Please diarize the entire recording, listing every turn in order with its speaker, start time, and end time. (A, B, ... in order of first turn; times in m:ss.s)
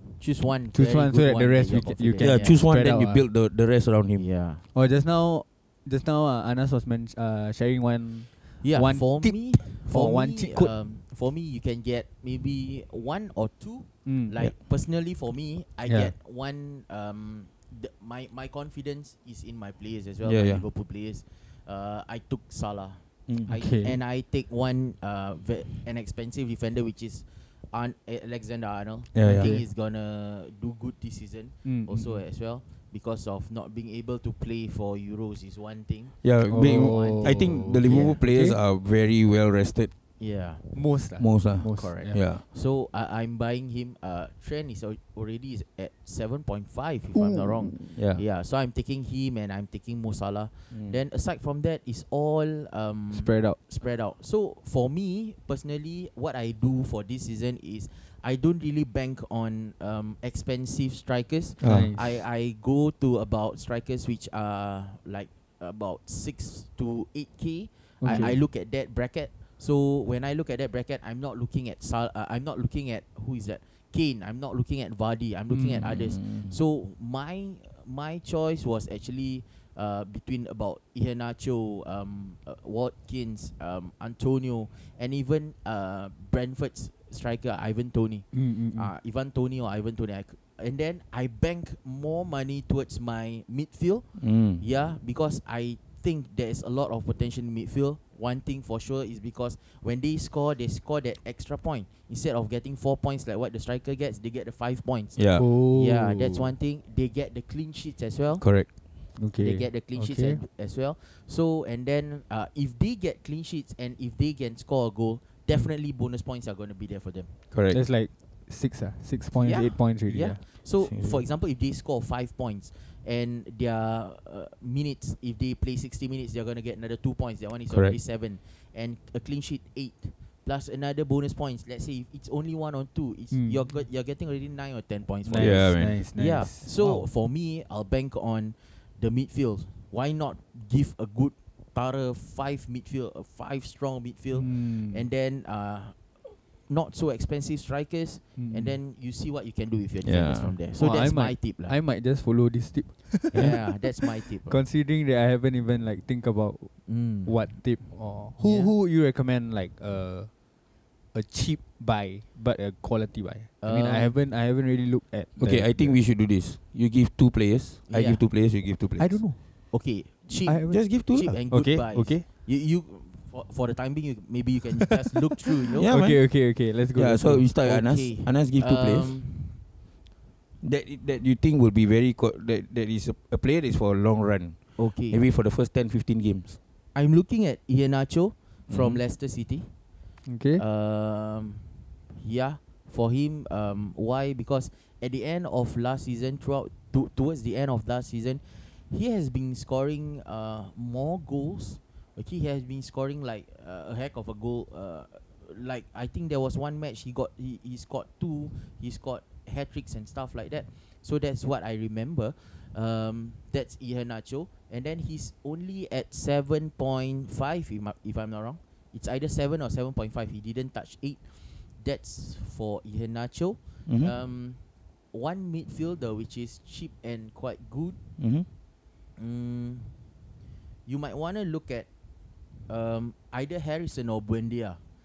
0:00.2-0:02.6 A
0:00.7-0:03.3 B
0:02.2-0:04.2 C
0:04.1-0:04.6 A
0:04.7-0:10.7 B
0:08.6-0:38.2 A
0:14.0-0:14.4 B
0:15.8-0:16.1 B
0:20.2-0:20.6 C
0:23.4-0:24.0 B
0:29.1-0:29.5 C
0:29.2-0:29.7 B
0:31.6-0:32.2 B
0:36.2-0:39.9 C
0:36.5-0:38.6 B
0:40.2-0:40.7 A
0:40.7-0:42.2 B
0:41.2-0:42.4 C
0:41.7-1:48.4 A
0:47.1-0:47.8 B
0:48.0-0:48.2 C
0:53.1-0:53.6 B
1:01.6-1:01.9 C
1:01.6-1:02.1 B
1:08.0-1:08.4 B
1:15.5-1:16.1 B
1:15.9-1:16.6 C
1:28.3-1:28.9 B
1:34.2-1:34.6 C
1:45.2-1:45.4 C
1:45.3-1:46.5 B
1:48.4-1:48.7 C
1:49.2-1:50.4 B
1:49.4-1:57.3 A
1:57.5-1:57.8 C
1:57.7-2:00.4 B
1:59.4-2:31.8 A
2:00.8-2:01.2 C
2:07.7-2:08.0 C
2:13.3-2:13.8 B
2:15.2-2:17.1 B
2:15.4-2:16.0 C
2:24.3-2:25.1 B
2:28.4-2:28.8 B
2:30.0-2:30.6 C
2:30.8-2:40.3 B
2:33.3-2:34.6 A
2:36.9-2:37.3 A
2:38.4-2:38.7 A
2:41.1-2:46.0 B
2:43.6-2:44.1 A
2:45.4-2:49.2 C
2:47.9-2:48.2 A
2:49.0-2:49.4 B
2:49.7-2:55.9 A
2:50.3-2:52.3 B
2:50.7-2:51.4 C
2:55.7-2:57.6 B
2:55.8-2:56.3 C
2:56.9-2:59.2 C
2:57.6-2:59.6 A
3:00.6-3:06.6 C
3:04.8-3:05.2 A
3:06.9-3:09.7 A
3:08.7-3:09.0 C
3:10.3-3:10.6 B
3:10.6-3:44.6 A
3:43.9-3:44.1 C
3:45.1-3:48.0 A
3:48.2-3:48.5 C
3:49.2-3:50.0 A
3:50.8-3:51.9 A
3:52.7-3:54.8 A